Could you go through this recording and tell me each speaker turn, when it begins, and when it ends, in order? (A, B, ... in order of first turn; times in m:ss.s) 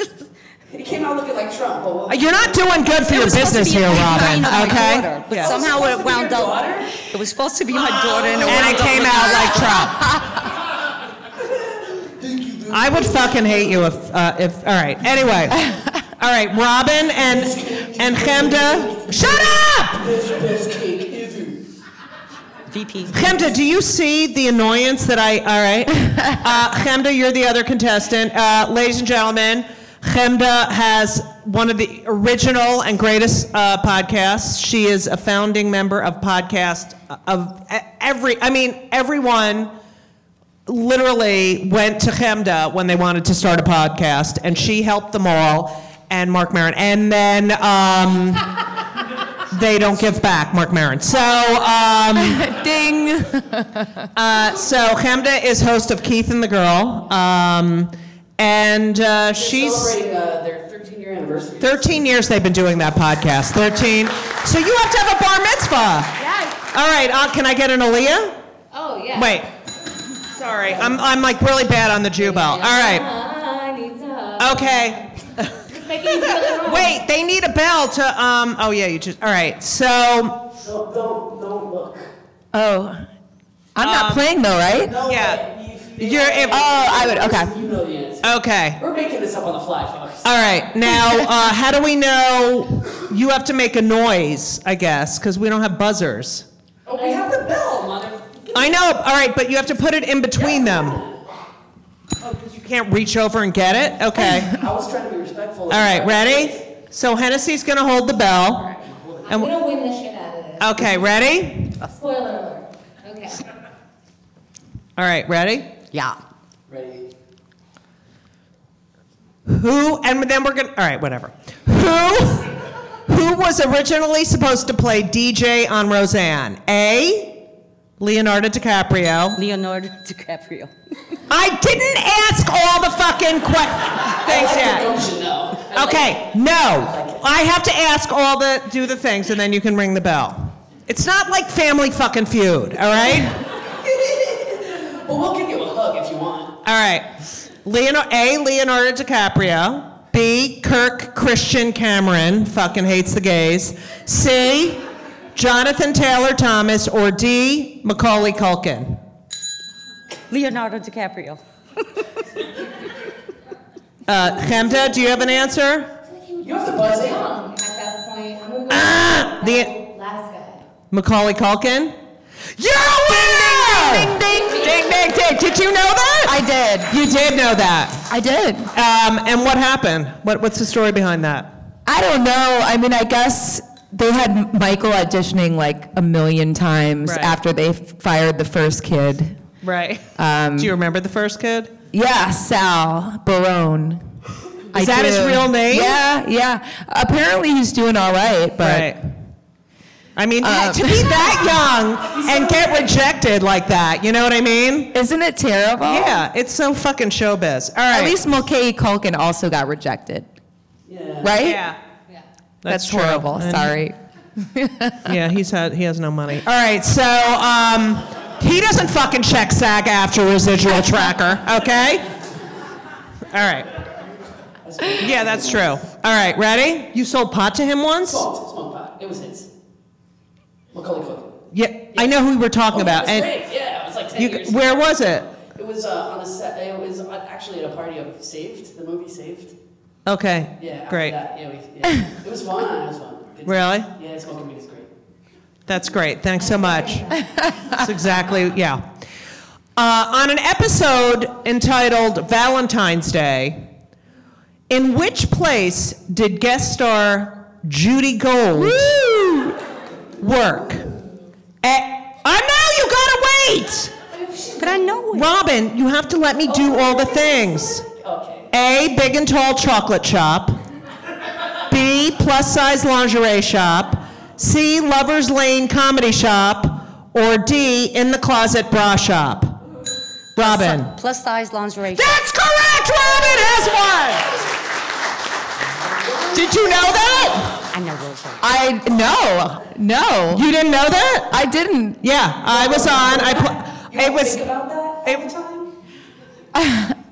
0:00.7-0:02.8 A
0:02.1-0:05.5 B
0:03.0-0:10.3 C
0:05.3-0:07.0 A
0:07.8-0:09.0 A
0:08.5-0:10.0 B
0:12.2-0:13.2 A
0:12.7-0:15.7 B
0:16.2-0:20.1 B
0:17.2-0:21.6 A
0:22.7-0:23.5 C
0:23.1-0:39.7 B
0:40.7-0:48.5 B
0:49.5-0:52.4 B
0:52.2-0:53.9 D
0:54.1-1:00.0 B
0:59.3-1:02.1 A
1:01.6-1:06.2 B
1:06.2-1:06.6 E
1:06.7-1:08.4 B
1:08.7-1:09.4 E
1:09.1-1:09.5 B
1:10.4-1:13.0 B
1:12.1-1:15.0 E
1:14.4-1:15.5 B
1:15.7-1:17.0 E
1:16.0-1:20.4 B
1:20.6-1:22.1 A
1:22.5-1:23.0 D
1:23.8-1:25.0 D
1:23.8-1:24.2 B
1:24.7-1:30.3 A
1:25.0-1:25.4 B
1:26.0-1:26.7 B
1:26.5-1:27.6 D
1:28.2-1:28.8 B
1:30.2-1:36.4 B
1:36.9-1:38.3 A
1:37.0-1:37.3 E
1:38.5-1:41.0 B
1:40.3-1:41.2 A
1:42.2-1:44.6 B
1:44.5-1:46.6 A
1:45.7-1:48.7 B
1:48.8-1:49.2 A
1:49.3-1:51.0 E
1:50.6-1:51.7 B
1:51.8-1:53.4 E
1:55.0-1:55.7 B
1:55.9-1:56.2 C
1:56.7-1:57.1 A
1:59.4-2:02.5 B
2:03.0-2:07.4 B
2:08.0-2:09.4 B
2:09.4-2:10.7 C
2:11.3-2:14.9 B
2:14.2-2:17.2 A
2:15.7-2:23.4 B
2:23.6-2:26.5 A
2:26.6-2:27.1 B
2:27.6-2:34.8 B
2:35.4-2:39.0 B
2:40.3-2:41.4 C
2:44.1-2:45.9 B
2:46.0-2:50.6 E
2:46.4-2:47.3 A
2:48.7-2:49.7 B
2:50.9-2:52.0 B
2:52.6-2:56.4 B
2:52.9-2:54.7 D
2:54.2-2:55.2 E
2:56.2-2:57.0 D
2:56.9-2:58.0 B
2:58.1-2:58.7 D
2:58.7-3:01.5 B
3:01.9-3:09.4 D
3:07.0-3:07.4 B
3:09.6-3:10.0 B
3:10.2-3:10.7 D
3:10.6-3:11.7 B
3:11.9-3:14.0 D
3:14.7-3:18.9 D
3:14.7-3:16.0 B
3:18.6-3:19.0 B
3:20.2-3:24.9 B
3:20.4-3:21.4 D
3:22.0-3:22.9 A
3:24.9-3:26.2 D
3:25.8-3:28.2 B
3:27.9-3:30.3 D
3:30.9-3:31.4 A
3:31.2-3:31.6 D
3:31.4-3:31.8 B
3:32.6-3:33.8 B
3:32.7-3:34.0 D
3:34.5-3:35.0 D
3:35.0-3:42.1 B
3:43.3-3:43.7 B
3:44.6-3:45.8 A
3:45.0-3:48.2 B
3:48.1-3:49.5 A
3:50.7-3:51.3 A
3:51.5-3:53.4 B
3:51.9-3:52.2 A
3:52.7-3:59.5 A
3:54.2-3:55.3 B
4:00.0-4:01.1 B
4:00.6-4:04.9 A
4:03.4-4:03.9 B
4:05.7-4:07.0 B
4:06.4-4:07.3 E
4:07.7-4:08.8 B
4:09.8-4:13.6 B
4:14.7-4:19.0 B
4:20.2-4:20.9 B
4:21.6-4:23.9 B
4:24.1-4:25.0 E
4:24.6-4:25.3 C
4:25.1-4:27.9 B
4:26.4-4:28.5 A
4:28.5-4:30.6 B
4:31.7-4:39.6 B
4:40.4-4:40.9 B
4:40.4-4:42.3 C
4:41.9-4:44.3 B
4:45.9-4:47.5 A
4:46.3-4:47.5 B
4:47.7-4:48.4 C
4:48.4-4:50.5 D
4:50.3-4:51.3 B
4:51.3-4:52.0 D
4:52.0-4:54.4 B
4:52.4-4:55.7 A
4:56.6-4:56.9 D